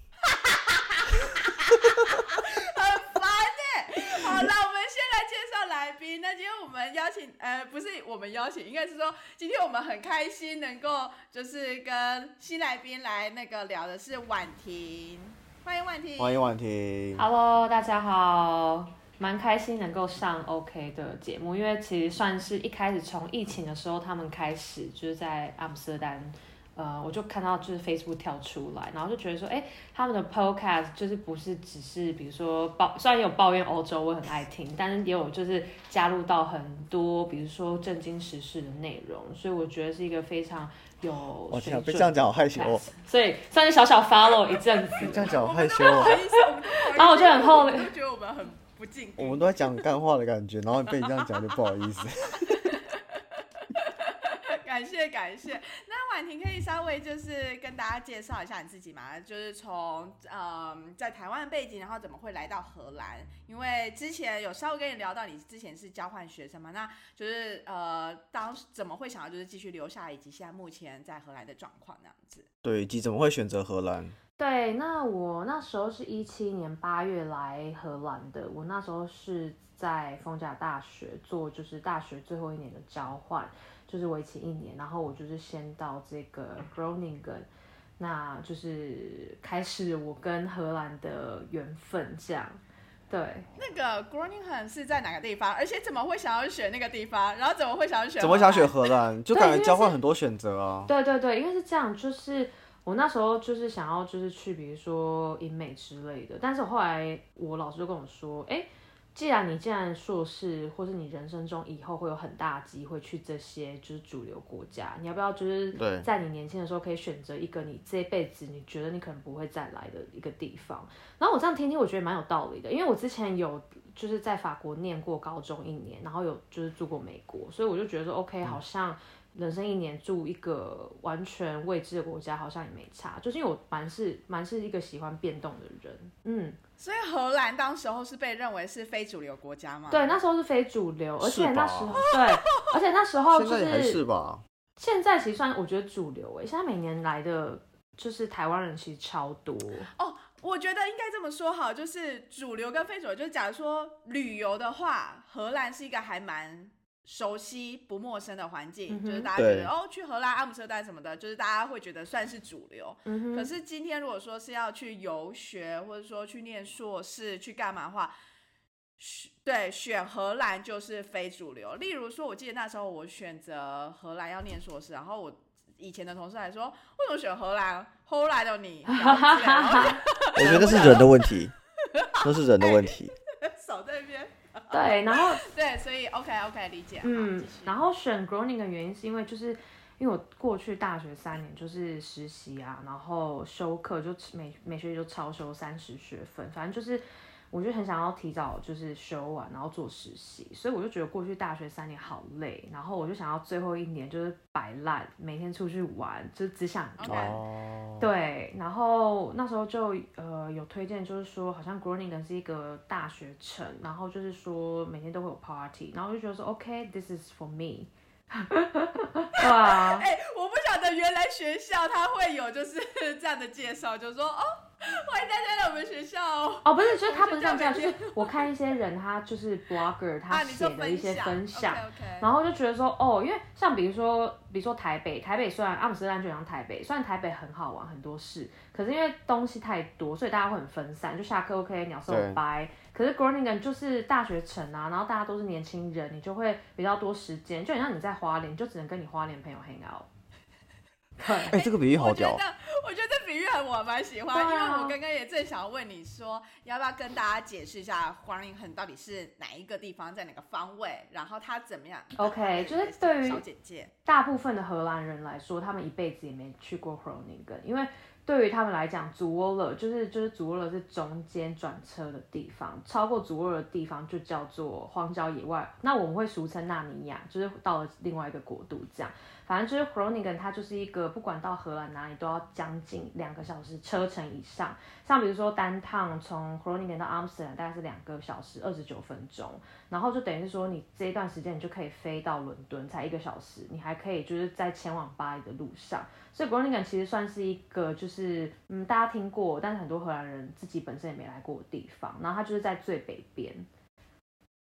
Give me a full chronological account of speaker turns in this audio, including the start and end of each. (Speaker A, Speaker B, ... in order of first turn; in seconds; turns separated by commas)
Speaker A: 0.2-16.4, Speaker B: 16.2-17.2, Speaker C: 17.2-45.4, Speaker B: 41.5-42.8, Speaker B: 45.0-46.2, Speaker A: 45.3-49.8, Speaker C: 45.9-47.9, Speaker B: 49.2-52.8, Speaker A: 51.1-51.6, Speaker A: 52.4-72.5, Speaker B: 72.6-74.2, Speaker C: 74.4-87.5, Speaker C: 88.0-92.6, Speaker C: 93.1-93.5, Speaker A: 93.6-98.9, Speaker B: 98.2-100.9, Speaker C: 99.3-100.0, Speaker C: 100.9-136.6, Speaker B: 115.8-116.1, Speaker A: 136.8-140.2, Speaker C: 139.9-144.0, Speaker B: 141.2-142.0, Speaker A: 142.0-142.7, Speaker B: 143.3-144.4, Speaker C: 144.8-149.9, Speaker A: 149.9-168.1, Speaker C: 158.9-159.3, Speaker B: 159.4-159.7, Speaker C: 163.1-163.5, Speaker A: 169.0-181.3, Speaker C: 178.9-181.1, Speaker B: 180.4-181.5, Speaker A: 181.8-187.7, Speaker B: 182.2-183.1, Speaker C: 184.7-185.5, Speaker C: 187.0-207.3, Speaker A: 207.0-207.4, Speaker B: 207.1-208.1, Speaker C: 208.0-220.1, Speaker A: 219.4-228.5, Speaker C: 226.6-250.1, Speaker A: 230.3-232.3, Speaker B: 242.1-242.4, Speaker C: 251.2-251.5, Speaker B: 251.4-252.4, Speaker A: 251.5-263.9, Speaker C: 254.3-255.0, Speaker C: 262.2-263.4, Speaker C: 264.1-303.7